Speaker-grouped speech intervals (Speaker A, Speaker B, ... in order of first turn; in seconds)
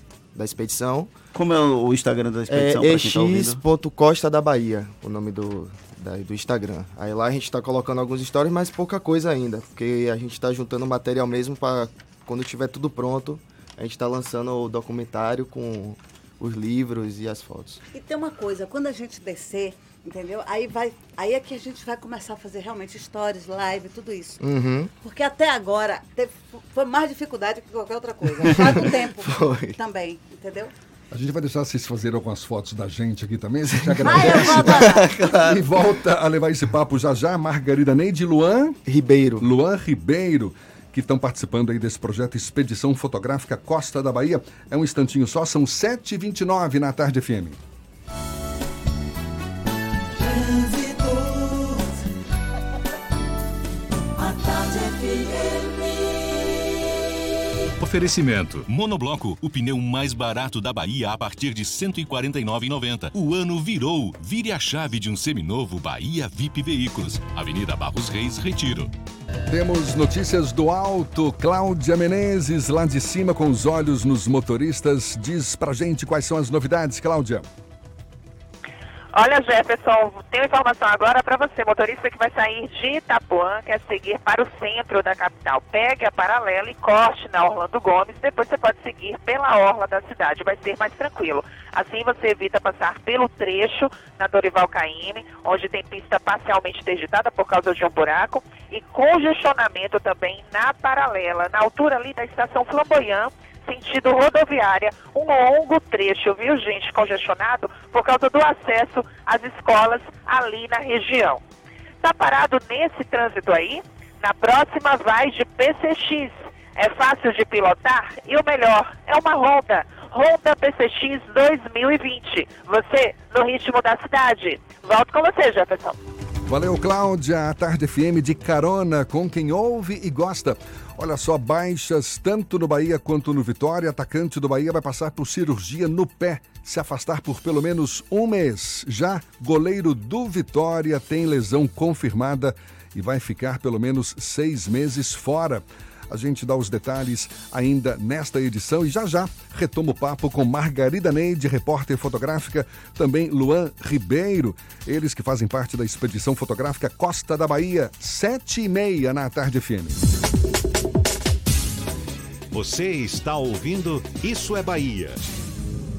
Speaker A: 0.3-1.1, 2.5-17.8, 24.4-24.9, 28.4-29.8, 33.8-35.6, 38.9-39.5
Speaker B: 1.3-3.6
Speaker C: 17.9-24.4, 25.0-30.7, 34.0-35.1
Speaker D: 31.1-38.8, 39.4-47.6, 69.5-77.5, 126.5-160.0
Speaker E: 57.8-68.9
Speaker F: 79.1-111.4, 112.0-126.0
Speaker G: 162.5-165.3